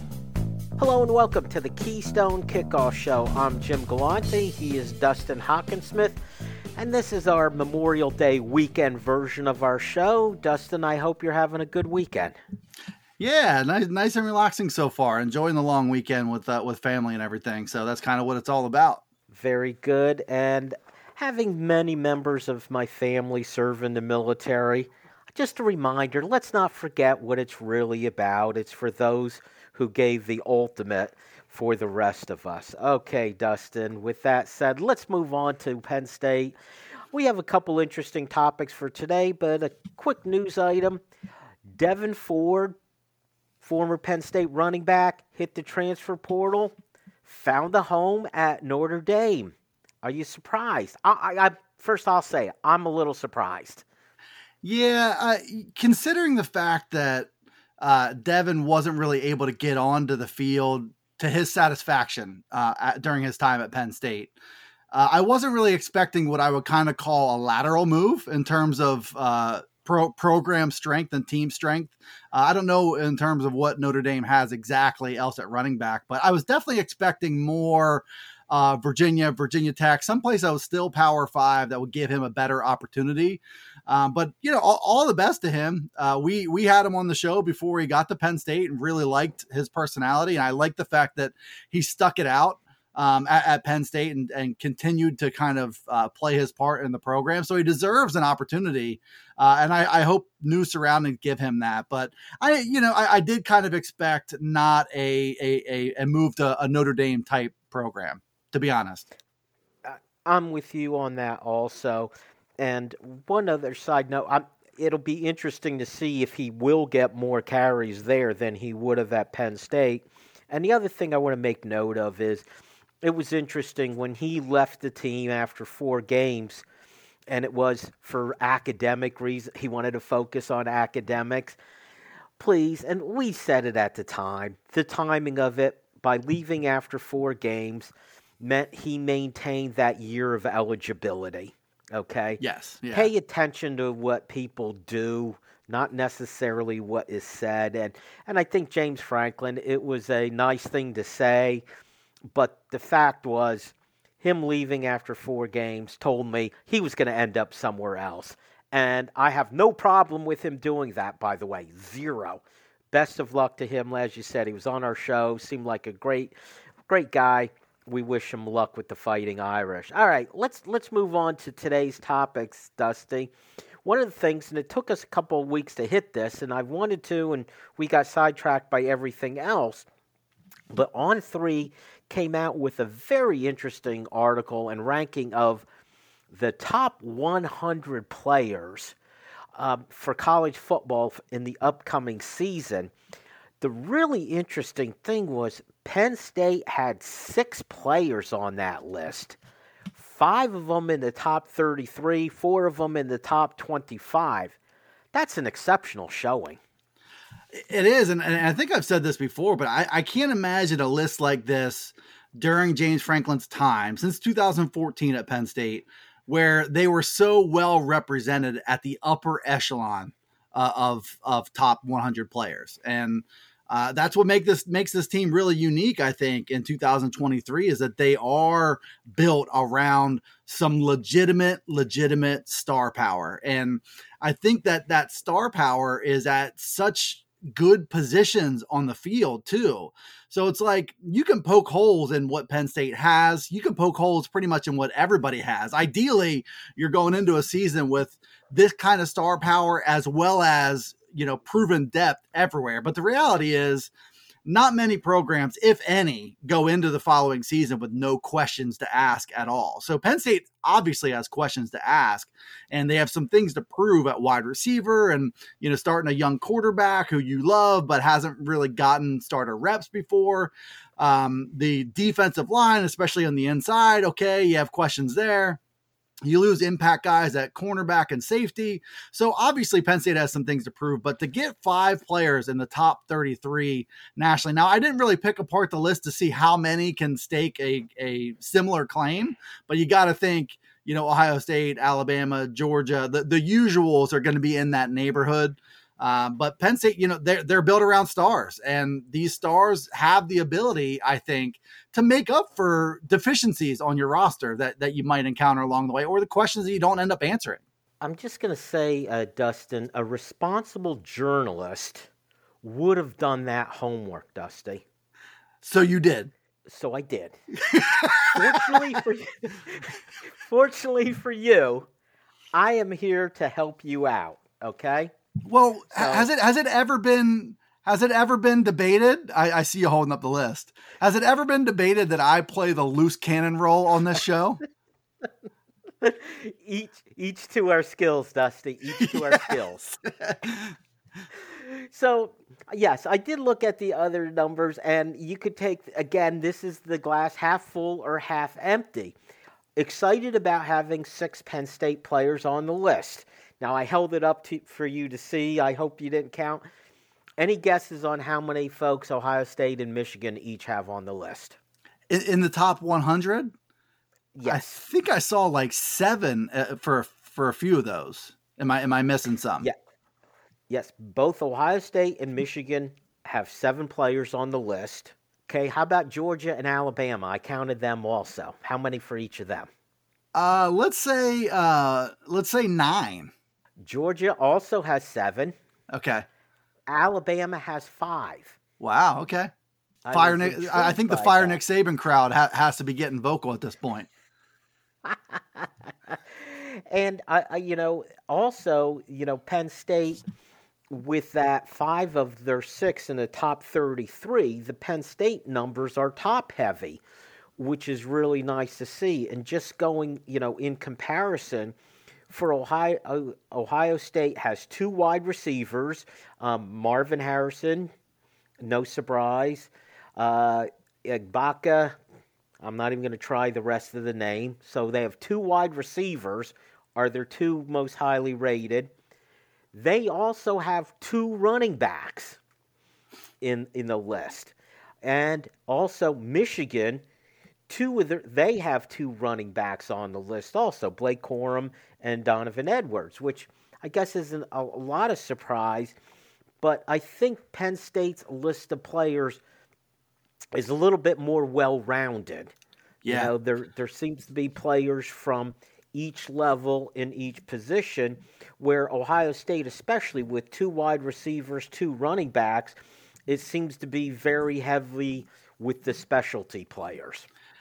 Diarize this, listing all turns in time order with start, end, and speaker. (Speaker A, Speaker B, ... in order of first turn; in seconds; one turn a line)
Speaker A: 0.8-6.2
Speaker A: 6.8-12.4
Speaker B: 13.2-19.0
Speaker A: 19.3-36.5
Speaker A: 37.1-41.0
Speaker A: 41.7-42.8
Speaker A: 43.6-53.8
Speaker B: 54.6-64.3
Speaker B: 64.9-109.0
Speaker A: 109.8-122.4
Speaker A: 123.0-126.6
Speaker A: 127.3-131.6
Speaker A: 132.4-151.6
Speaker B: 142.4-143.1
Speaker A: 152.3-166.3
Speaker A: 166.9-173.3
Speaker A: 173.8-179.8
Speaker A: 180.7-185.6
Speaker A: 186.3-188.9
Speaker A: 189.5-192.9
Speaker A: 193.6-199.4
Speaker A: 199.9-204.6
Speaker A: 205.1-206.6
Speaker B: 207.5-253.9
Speaker B: 254.4-275.6
Speaker B: 276.2-307.6
Speaker A: 308.0-312.1
Speaker A: 312.6-314.8
Speaker B: 315.6-316.3
Speaker A: 316.7-317.4
Speaker B: 317.6-318.3
Speaker A: 318.2-321.9
Speaker A: 322.5-325.1
Speaker B: 325.4-334.6
Speaker A: 325.9-326.3
Speaker A: 336.0-340.0
Speaker A: 341.6-349.1
Speaker A: 349.8-356.6
Speaker A: 357.4-361.6
Speaker B: 362.1-363.5
Speaker A: 364.3-364.8
Speaker B: 364.4-369.7
Speaker A: 370.7-379.7
Speaker B: 380.3-383.3
Speaker A: 383.8-385.5
Speaker B: 385.9-386.2
Speaker A: 386.9-388.6
Speaker B: 388.8-389.5
Speaker A: 390.0-391.6
Speaker B: 390.1-394.1
Speaker A: 395.0-400.2
Speaker A: 400.9-407.0
Speaker A: 407.6-411.7
Speaker A: 412.3-417.9
Speaker A: 418.6-421.9
Speaker A: 422.6-428.9
Speaker A: 429.7-432.4
Speaker A: 433.4-437.0
Speaker A: 437.7-445.9
Speaker A: 446.6-449.4
Speaker A: 450.5-452.5
Speaker B: 453.0-453.3
Speaker A: 453.1-462.7
Speaker A: 463.3-467.3